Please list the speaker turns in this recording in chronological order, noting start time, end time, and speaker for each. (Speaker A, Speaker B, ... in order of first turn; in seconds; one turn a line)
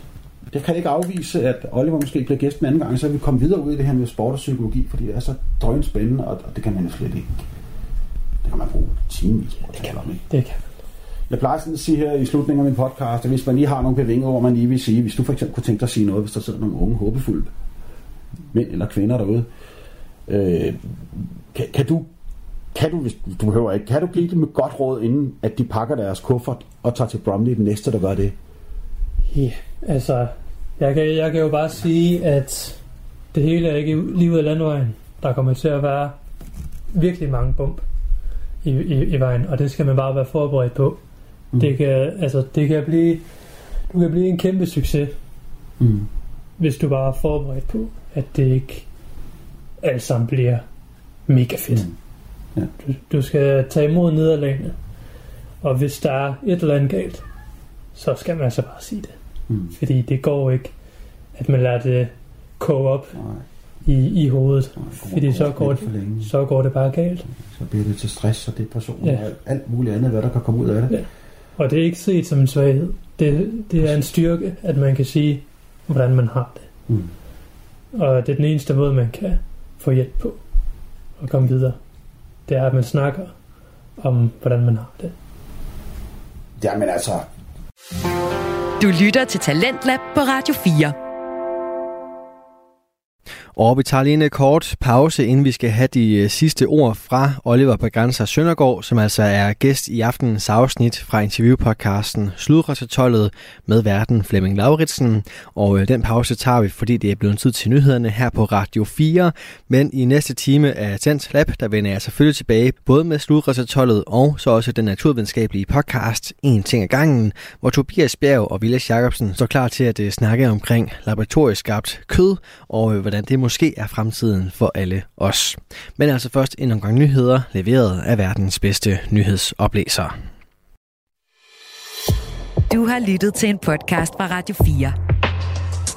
Speaker A: 0.5-7.5
Speaker A: 8.4-10.2
Speaker B: 10.3-10.7
Speaker A: 11.3-17.5
Speaker A: 18.5-19.4
Speaker A: 20.3-22.1
Speaker A: 22.7-28.4
Speaker B: 29.3-32.8
Speaker B: 33.3-36.1
Speaker B: 36.9-37.8
Speaker B: 38.6-41.0
Speaker B: 41.6-43.2
Speaker B: 43.9-45.1
Speaker A: 45.8-46.1
Speaker B: 46.6-48.8
Speaker B: 49.8-50.6
Speaker B: 51.3-51.9
Speaker B: 52.8-54.8
Speaker B: 55.6-57.2
Speaker B: 58.0-59.1
Speaker B: 59.7-60.7
Speaker B: 61.4-63.2
Speaker A: 63.1-63.4
Speaker B: 63.8-67.3
Speaker A: 64.8-66.3
Speaker A: 67.4-71.0
Speaker B: 71.6-76.7
Speaker B: 77.9-80.4
Speaker B: 81.2-81.8
Speaker B: 82.5-83.3
Speaker B: 84.0-85.1
Speaker A: 86.6-87.3
Speaker C: 88.8-91.0
Speaker D: 93.5-130.1
Speaker C: 132.7-134.9